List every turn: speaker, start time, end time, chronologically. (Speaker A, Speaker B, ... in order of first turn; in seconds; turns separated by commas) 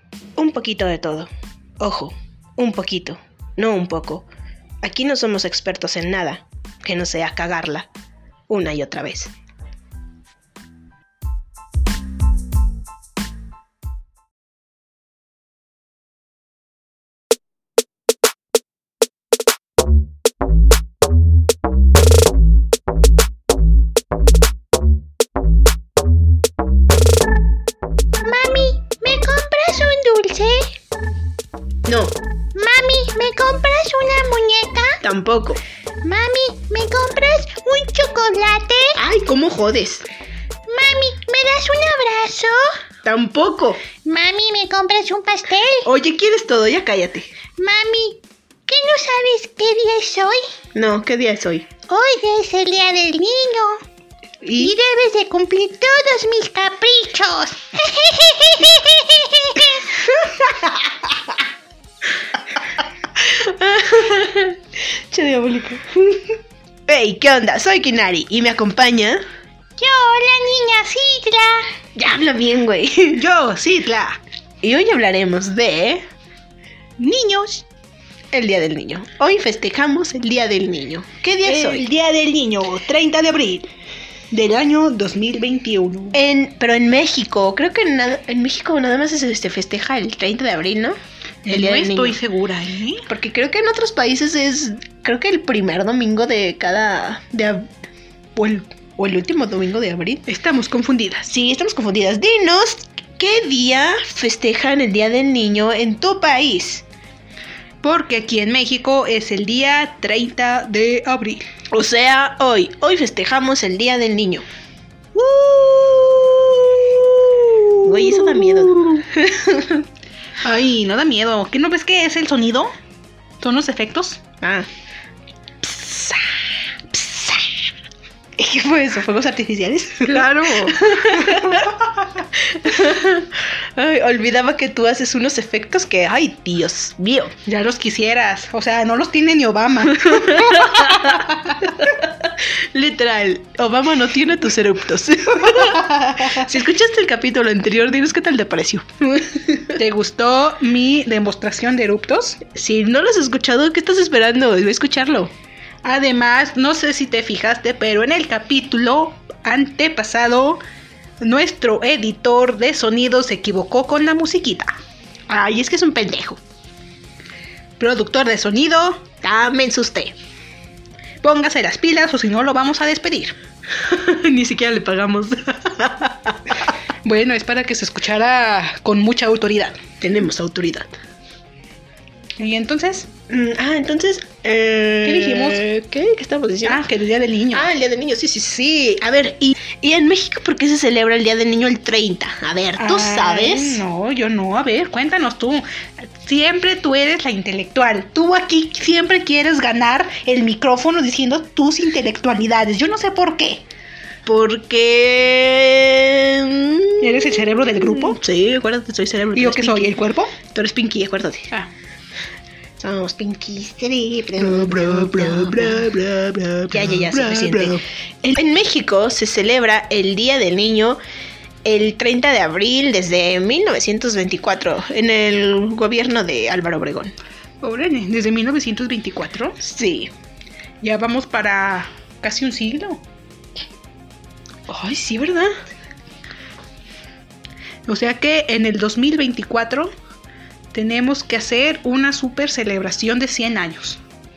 Speaker A: 0.4-4.3, Speaker A: 4.8-7.9, Speaker A: 8.5-9.3, Speaker B: 28.2-30.7, Speaker A: 31.9-32.2, Speaker B: 32.5-35.0, Speaker A: 35.0-35.6, Speaker B: 36.0-39.0, Speaker A: 39.0-40.0, Speaker B: 40.7-42.7, Speaker A: 43.0-43.9, Speaker B: 44.0-45.9, Speaker A: 45.8-47.3, Speaker B: 47.6-50.4, Speaker A: 50.8-51.7, Speaker B: 51.9-53.8, Speaker A: 54.5-54.7, Speaker B: 54.6-60.3, Speaker A: 63.2-69.2, Speaker B: 69.8-71.7, Speaker A: 72.0-73.2, Speaker C: 73.1-74.2, Speaker A: 74.6-76.0, Speaker C: 77.0-77.7, Speaker A: 78.3-81.9, Speaker C: 81.4-83.7, Speaker C: 84.3-86.2, Speaker A: 86.1-91.0, Speaker C: 91.5-93.0, Speaker A: 91.5-92.2, Speaker A: 93.1-97.7, Speaker A: 98.4-100.2, Speaker C: 100.3-101.3, Speaker A: 101.3-106.8, Speaker C: 107.8-111.5, Speaker A: 111.7-114.5, Speaker C: 115.2-118.8, Speaker A: 117.8-119.8, Speaker C: 120.4-122.7, Speaker C: 123.4-124.2, Speaker A: 124.4-124.7, Speaker A: 125.6-126.2, Speaker A: 126.9-127.5, Speaker A: 128.4-131.8, Speaker C: 130.0-131.9, Speaker A: 132.3-137.3, Speaker C: 137.5-141.7, Speaker A: 140.0-149.7, Speaker C: 145.6-146.4, Speaker C: 149.8-152.4, Speaker A: 152.5-155.3, Speaker C: 155.8-160.6, Speaker C: 161.2-164.7, Speaker A: 165.3-166.4, Speaker C: 167.8-169.1, Speaker A: 169.2-170.1, Speaker C: 171.2-173.4, Speaker A: 173.8-176.7, Speaker C: 177.0-179.8, Speaker A: 180.0-180.9, Speaker C: 182.4-183.1, Speaker A: 183.3-186.8, Speaker C: 185.0-185.6, Speaker C: 186.7-187.7, Speaker A: 187.5-193.8, Speaker C: 192.8-203.6, Speaker A: 204.3-207.3, Speaker C: 207.0-208.2, Speaker A: 208.0-211.5, Speaker C: 209.3-210.3, Speaker A: 212.8-221.0, Speaker C: 214.4-217.8, Speaker A: 221.7-227.1, Speaker C: 227.6-229.6, Speaker A: 229.6-230.1, Speaker C: 230.8-233.0, Speaker A: 234.7-235.5, Speaker C: 237.9-239.9, Speaker C: 240.7-244.0